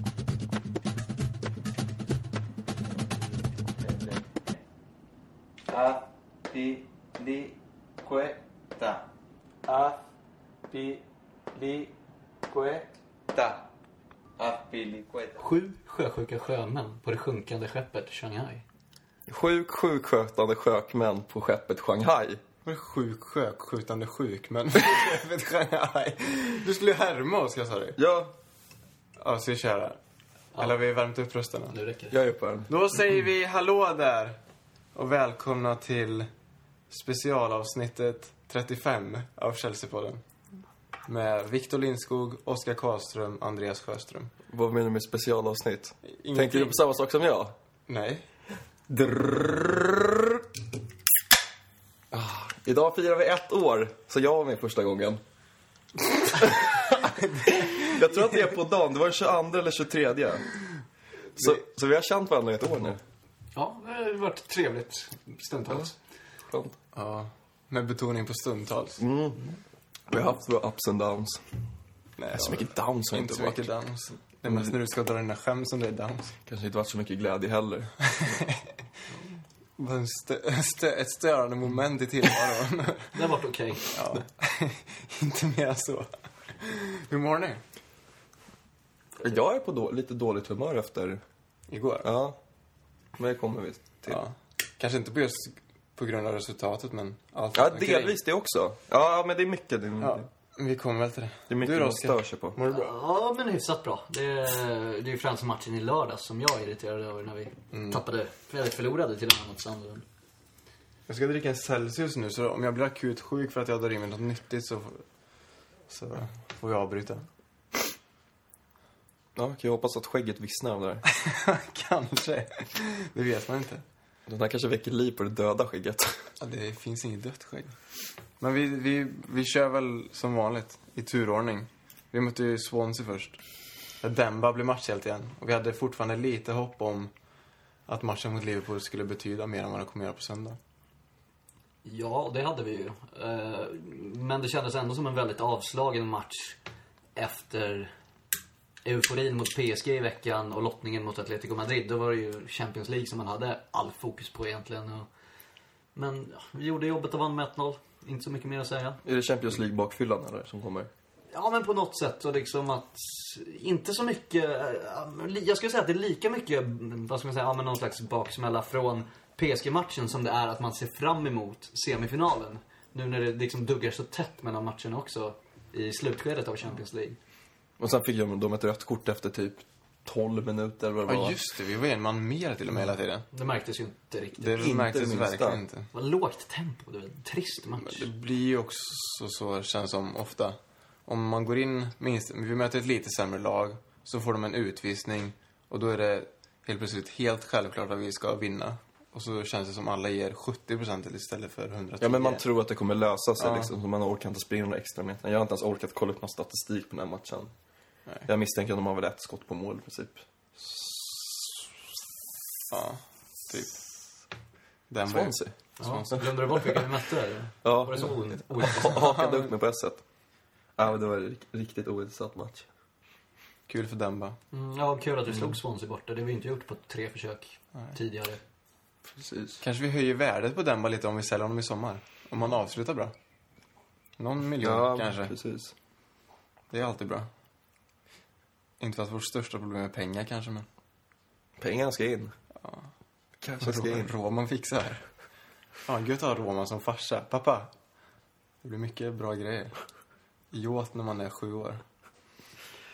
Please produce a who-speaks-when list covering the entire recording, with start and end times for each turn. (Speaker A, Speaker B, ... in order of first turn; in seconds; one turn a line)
Speaker A: 3.7-4.4
Speaker A: 5.7-9.1
Speaker A: 9.7-10.0
Speaker A: 10.7-11.9
Speaker A: 12.5-13.7
Speaker A: 14.4-15.4
Speaker B: 15.4-18.6
Speaker C: 19.3-22.4
Speaker D: 22.6-28.0
Speaker C: 28.0-28.3
Speaker D: 29.2-30.0
Speaker D: 30.5-31.7
Speaker B: 31.7-32.1
Speaker C: 32.1-32.7
Speaker D: 32.7-34.4
Speaker D: 34.9-36.3
Speaker D: 36.9-40.2
Speaker D: 41.0-44.3
Speaker C: 44.5-47.5
Speaker D: 46.0-46.8
Speaker D: 47.9-48.2
Speaker C: 48.9-50.4
Speaker C: 52.1-55.2
Speaker C: 56.3-60.5
Speaker C: 61.4-63.0
Speaker B: 63.5-65.9
Speaker C: 66.5-66.8
Speaker D: 66.9-69.0
Speaker C: 69.0-69.4
Speaker C: 70.1-71.5
Speaker D: 72.2-76.3
Speaker C: 72.3-73.7
Speaker C: 74.5-74.7
Speaker C: 76.5-78.4
Speaker D: 78.1-78.7
Speaker D: 79.8-83.2
Speaker B: 83.1-84.0
Speaker D: 83.9-87.6
Speaker C: 89.2-91.2
Speaker D: 91.7-92.1
Speaker C: 92.0-92.4
Speaker C: 93.2-94.2
Speaker D: 94.1-98.2
Speaker C: 97.5-100.3
Speaker D: 100.0-102.9
Speaker C: 101.5-102.5
Speaker B: 102.6-110.0
Speaker D: 107.7-108.0
Speaker D: 111.1-115.0
Speaker D: 115.9-117.3
Speaker C: 119.3-121.0
Speaker D: 121.0-123.8
Speaker C: 124.3-126.2
Speaker D: 126.4-127.8
Speaker D: 128.4-133.4
Speaker D: 134.0-137.1
Speaker D: 137.9-140.6
Speaker B: 141.8-146.6
Speaker B: 147.2-147.9
Speaker B: 148.8-155.1
Speaker B: 155.9-159.0
Speaker C: 159.0-160.9
Speaker B: 161.3-177.2
Speaker C: 177.8-181.3
Speaker D: 181.1-183.2
Speaker B: 183.3-184.7
Speaker D: 184.4-185.9
Speaker C: 184.5-185.6
Speaker B: 185.9-188.1
Speaker D: 187.8-202.4
Speaker C: 202.0-207.5
Speaker D: 203.4-203.7
Speaker C: 208.2-211.6
Speaker D: 212.7-213.8
Speaker D: 214.9-216.3
Speaker C: 215.1-215.6
Speaker B: 215.8-219.2
Speaker C: 217.6-220.0
Speaker C: 220.8-222.7
Speaker D: 223.7-224.4
Speaker B: 224.5-228.4
Speaker C: 229.1-229.6
Speaker D: 229.6-233.1
Speaker D: 234.2-235.3
Speaker C: 234.6-235.7
Speaker D: 236.7-237.3
Speaker D: 238.8-240.7
Speaker C: 241.6-242.3
Speaker C: 243.4-244.1
Speaker D: 243.6-245.1
Speaker D: 245.8-247.7
Speaker D: 248.6-249.7
Speaker D: 250.5-251.8